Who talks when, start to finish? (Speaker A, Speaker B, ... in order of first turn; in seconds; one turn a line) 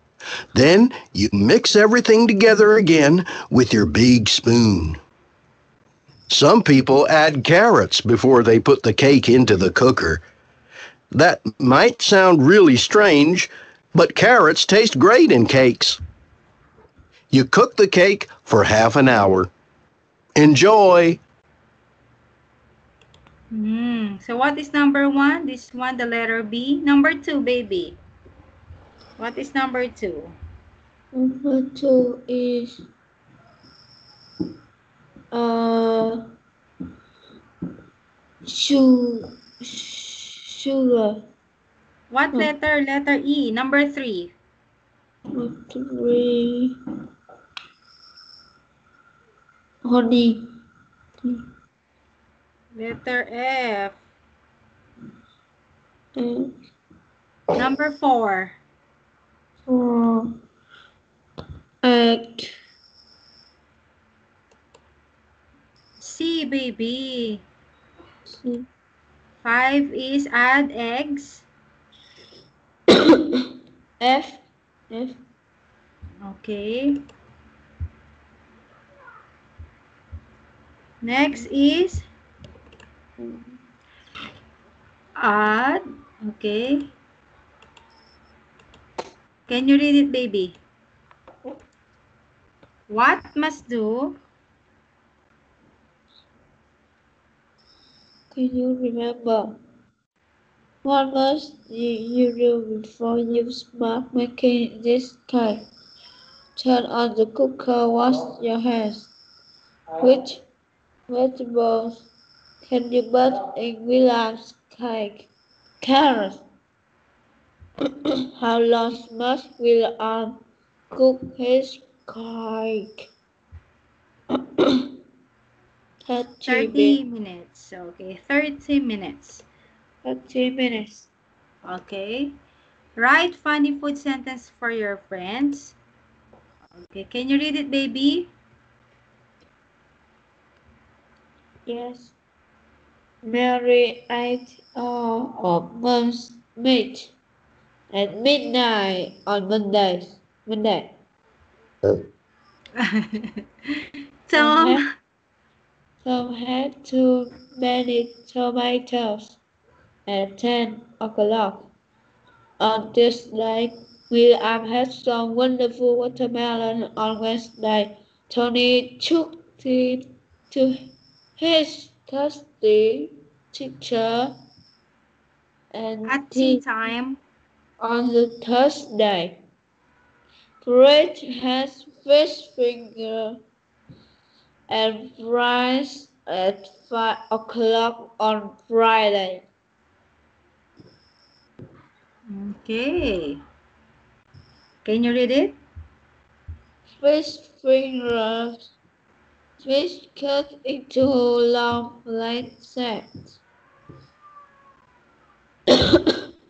Speaker A: 0.5-5.0
Speaker A: 6.3-10.2
Speaker A: 11.1-16.0
Speaker A: 17.3-19.5
Speaker A: 20.4-21.2
Speaker B: 23.5-28.0
Speaker B: 29.2-30.4
Speaker C: 31.1-32.9
Speaker C: 35.3-36.3
Speaker C: 38.4-41.3
Speaker B: 42.1-44.3
Speaker C: 45.3-46.8
Speaker C: 49.8-50.5
Speaker B: 52.7-54.0
Speaker C: 56.1-56.6
Speaker B: 57.6-58.6
Speaker C: 59.7-60.4
Speaker C: 61.8-62.5
Speaker B: 66.0-67.4
Speaker C: 68.3-68.7
Speaker B: 69.4-71.5
Speaker C: 73.1-73.5
Speaker C: 74.0-75.2
Speaker B: 76.2-77.0
Speaker B: 81.0-82.0
Speaker C: 83.2-83.6
Speaker B: 85.2-86.9
Speaker B: 89.5-90.6
Speaker B: 92.9-94.2
Speaker C: 98.3-99.6
Speaker C: 100.8-105.7
Speaker C: 106.6-109.1
Speaker C: 110.0-110.4
Speaker C: 111.1-112.1
Speaker C: 112.6-115.3
Speaker C: 115.8-116.4
Speaker C: 118.0-123.1
Speaker C: 124.3-124.9
Speaker C: 126.0-127.0
Speaker B: 126.5-129.4
Speaker C: 130.0-131.1
Speaker B: 131.7-132.3
Speaker B: 133.0-135.8
Speaker B: 136.8-138.3
Speaker C: 141.7-142.1
Speaker C: 143.2-147.1
Speaker C: 147.9-151.0
Speaker B: 152.8-153.4
Speaker B: 154.3-154.9
Speaker C: 154.3-154.8
Speaker C: 156.0-159.4
Speaker C: 160.1-161.7
Speaker C: 162.6-170.8
Speaker C: 171.4-174.4
Speaker C: 175.7-176.6
Speaker B: 176.1-177.2
Speaker C: 177.8-179.4
Speaker C: 180.6-183.4
Speaker C: 184.7-189.5
Speaker B: 192.3-193.4
Speaker B: 194.8-195.6
Speaker C: 196.9-198.7
Speaker C: 199.6-203.4
Speaker C: 205.7-206.2